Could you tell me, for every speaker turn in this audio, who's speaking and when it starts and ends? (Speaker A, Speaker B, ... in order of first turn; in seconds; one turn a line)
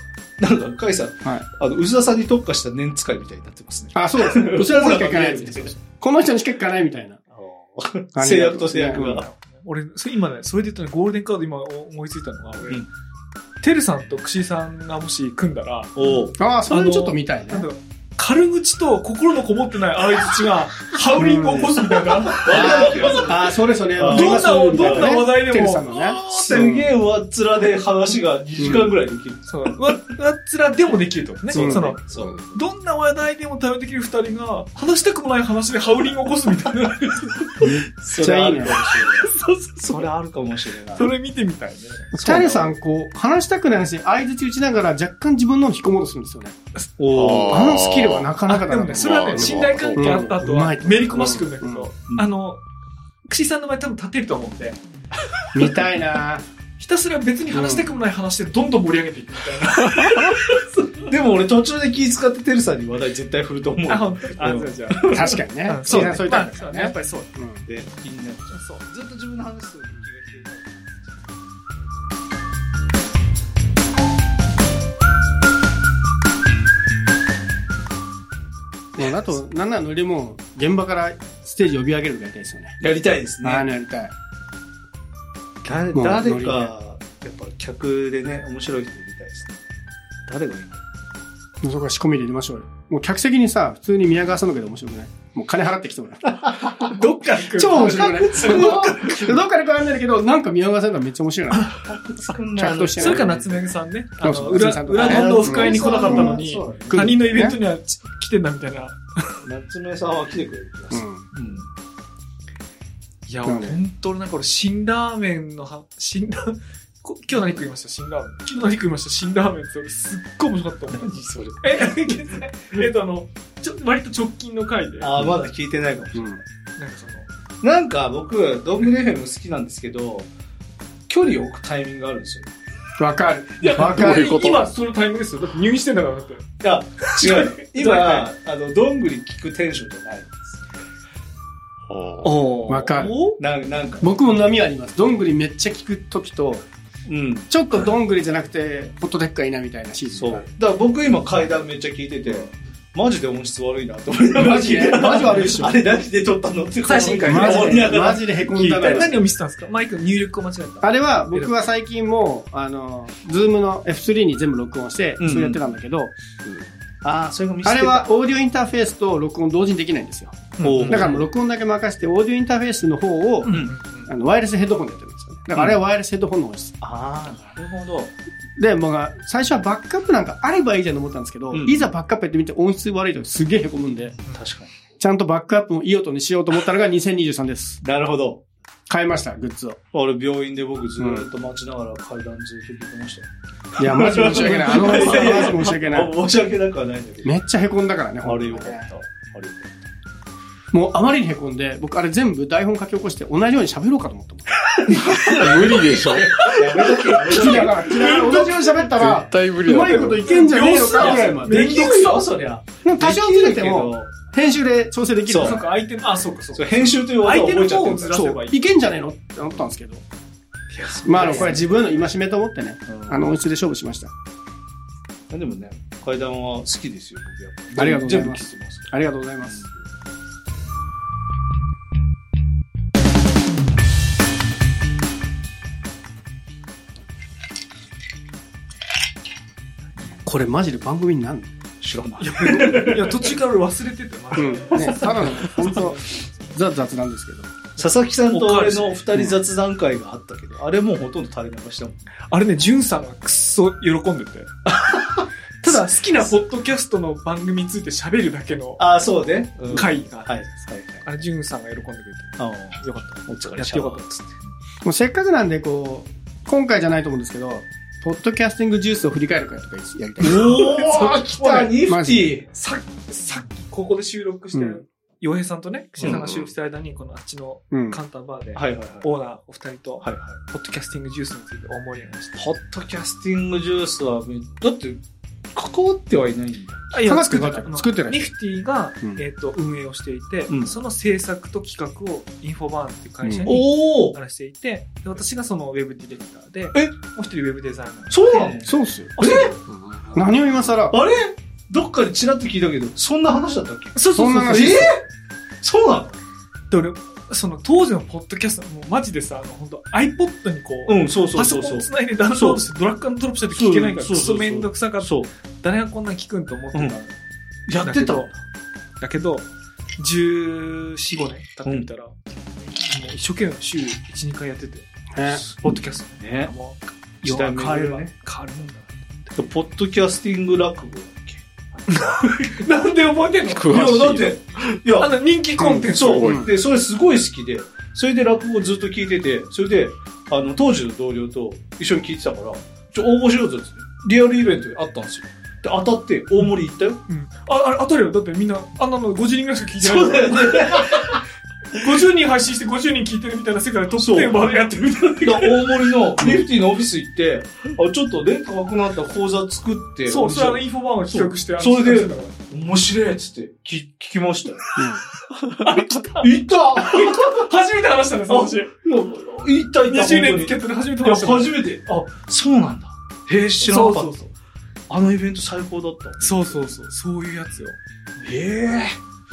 Speaker A: 0.4-5.8
Speaker B: 3.9-7.2
Speaker A: 7.3-9.3
Speaker B: 8.2-9.2
Speaker C: 8.9-12.8
Speaker C: 13.6-23.3
Speaker A: 15.9-16.3
Speaker B: 16.4-17.7
Speaker B: 21.2-26.9
Speaker A: 22.3-25.2
Speaker C: 24.0-26.8
Speaker A: 26.2-29.5
Speaker B: 28.6-28.9
Speaker C: 29.5-37.7
Speaker A: 31.5-32.6
Speaker B: 31.6-31.9
Speaker A: 37.6-41.1
Speaker B: 37.6-38.8
Speaker C: 39.0-40.1
Speaker C: 40.9-42.2
Speaker A: 42.1-42.7
Speaker B: 42.2-46.5
Speaker A: 47.0-47.8
Speaker D: 47.1-48.4
Speaker B: 47.4-51.9
Speaker C: 48.5-52.6
Speaker D: 48.9-50.3
Speaker C: 53.3-54.8
Speaker B: 55.5-56.4
Speaker C: 56.8-60.8
Speaker B: 57.5-57.9
Speaker A: 61.0-66.2
Speaker C: 63.9-67.4
Speaker B: 65.1-67.6
Speaker A: 67.7-71.3
Speaker C: 68.5-68.8
Speaker B: 79.0-82.8
Speaker A: 82.8-83.7
Speaker B: 83.4-84.1
Speaker A: 85.6-89.6
Speaker B: 85.9-86.7
Speaker A: 90.3-90.8
Speaker B: 91.6-96.9
Speaker A: 96.3-96.7
Speaker C: 96.9-99.3
Speaker B: 97.5-101.7
Speaker A: 97.6-99.4
Speaker C: 101.5-101.8
Speaker A: 101.8-103.7
Speaker B: 102.6-103.3
Speaker C: 103.0-109.4
Speaker B: 104.2-107.6
Speaker A: 104.3-107.1
Speaker A: 109.4-111.7
Speaker B: 110.9-111.3
Speaker C: 113.3-125.1
Speaker B: 113.5-113.8
Speaker A: 121.1-122.2
Speaker A: 125.0-126.4
Speaker B: 126.2-126.4
Speaker C: 126.8-127.3
Speaker A: 127.6-130.3
Speaker A: 131.1-132.5
Speaker B: 133.0-134.3
Speaker C: 133.6-136.4
Speaker D: 133.8-134.7
Speaker A: 136.6-140.6
Speaker C: 137.1-138.3
Speaker D: 141.9-142.3
Speaker C: 142.2-143.4
Speaker B: 142.7-143.2
Speaker A: 143.4-144.2
Speaker B: 144.0-146.7
Speaker A: 147.1-147.5
Speaker B: 147.5-150.5
Speaker A: 150.1-158.9
Speaker B: 154.3-155.8
Speaker C: 156.8-161.5
Speaker B: 157.2-159.2
Speaker B: 160.8-166.2
Speaker A: 165.2-165.6
Speaker A: 167.0-168.1
Speaker B: 167.6-176.8
Speaker C: 170.6-171.2
Speaker A: 170.6-171.3
Speaker C: 173.4-174.1
Speaker A: 173.5-173.7
Speaker A: 176.8-178.1
Speaker B: 178.6-184.2
Speaker A: 181.5-181.9
Speaker A: 184.3-184.7
Speaker B: 185.0-187.8
Speaker A: 187.8-188.4
Speaker B: 188.9-189.8
Speaker A: 189.9-197.3
Speaker B: 191.0-191.2
Speaker B: 193.8-196.1
Speaker B: 197.2-198.9
Speaker A: 198.2-199.7
Speaker B: 200.7-204.7
Speaker A: 204.7-208.5
Speaker D: 205.1-206.7
Speaker B: 207.2-211.9
Speaker C: 207.3-208.7
Speaker D: 208.9-210.3
Speaker C: 209.7-212.3
Speaker A: 210.6-214.1
Speaker B: 212.8-215.6
Speaker A: 215.2-215.6
Speaker C: 215.3-218.7
Speaker A: 216.5-218.4
Speaker B: 218.4-220.0
Speaker A: 220.7-221.9
Speaker C: 220.9-221.6
Speaker B: 221.0-224.1
Speaker A: 222.9-223.3
Speaker A: 225.3-229.8
Speaker B: 227.8-229.7
Speaker B: 240.2-241.5
Speaker A: 241.8-243.3
Speaker C: 242.2-246.2
Speaker B: 244.3-247.5
Speaker A: 244.7-245.9
Speaker C: 247.8-249.0
Speaker A: 247.8-252.1
Speaker C: 252.2-254.5
Speaker A: 254.7-255.8
Speaker C: 255.6-258.8
Speaker A: 258.8-261.1
Speaker C: 259.7-260.5
Speaker C: 261.0-264.4
Speaker A: 262.4-264.1
Speaker B: 264.8-272.3
Speaker A: 270.2-272.4
Speaker C: 272.5-282.5
Speaker B: 274.5-274.8
Speaker A: 276.0-276.4
Speaker B: 277.7-278.0
Speaker A: 278.5-279.1
Speaker A: 280.0-280.4
Speaker A: 282.4-285.0
Speaker A: 285.5-286.9
Speaker C: 286.9-298.5
Speaker B: 287.0-288.3
Speaker A: 290.5-290.8
Speaker B: 293.2-293.5
Speaker A: 293.5-294.1
Speaker A: 298.1-299.6
Speaker B: 298.6-299.1
Speaker C: 299.2-299.5
Speaker D: 299.7-300.2
Speaker B: 300.1-301.0
Speaker A: 300.9-305.0
Speaker C: 303.9-304.9
Speaker B: 304.1-304.9
Speaker A: 305.6-306.2
Speaker C: 306.7-317.1
Speaker A: 310.9-312.6
Speaker A: 313.5-315.3
Speaker A: 317.7-318.4
Speaker C: 317.8-318.3
Speaker C: 319.0-319.5
Speaker C: 320.0-324.9
Speaker B: 325.1-325.4
Speaker A: 325.5-326.5
Speaker C: 325.6-329.3
Speaker A: 327.2-328.1
Speaker A: 329.4-331.4
Speaker C: 331.9-333.9
Speaker D: 333.5-334.6
Speaker A: 333.7-335.1
Speaker C: 335.0-336.4
Speaker B: 335.6-336.5
Speaker A: 335.9-347.0
Speaker C: 347.1-351.2
Speaker A: 349.8-351.2
Speaker C: 351.7-355.7
Speaker A: 353.9-354.6
Speaker A: 355.1-364.7
Speaker C: 360.1-362.4
Speaker B: 364.8-365.0
Speaker C: 365.6-368.7
Speaker A: 366.2-367.5
Speaker A: 368.3-374.2
Speaker C: 369.9-371.5
Speaker C: 373.6-374.3
Speaker A: 374.9-376.6
Speaker C: 376.2-377.8
Speaker A: 378.2-379.0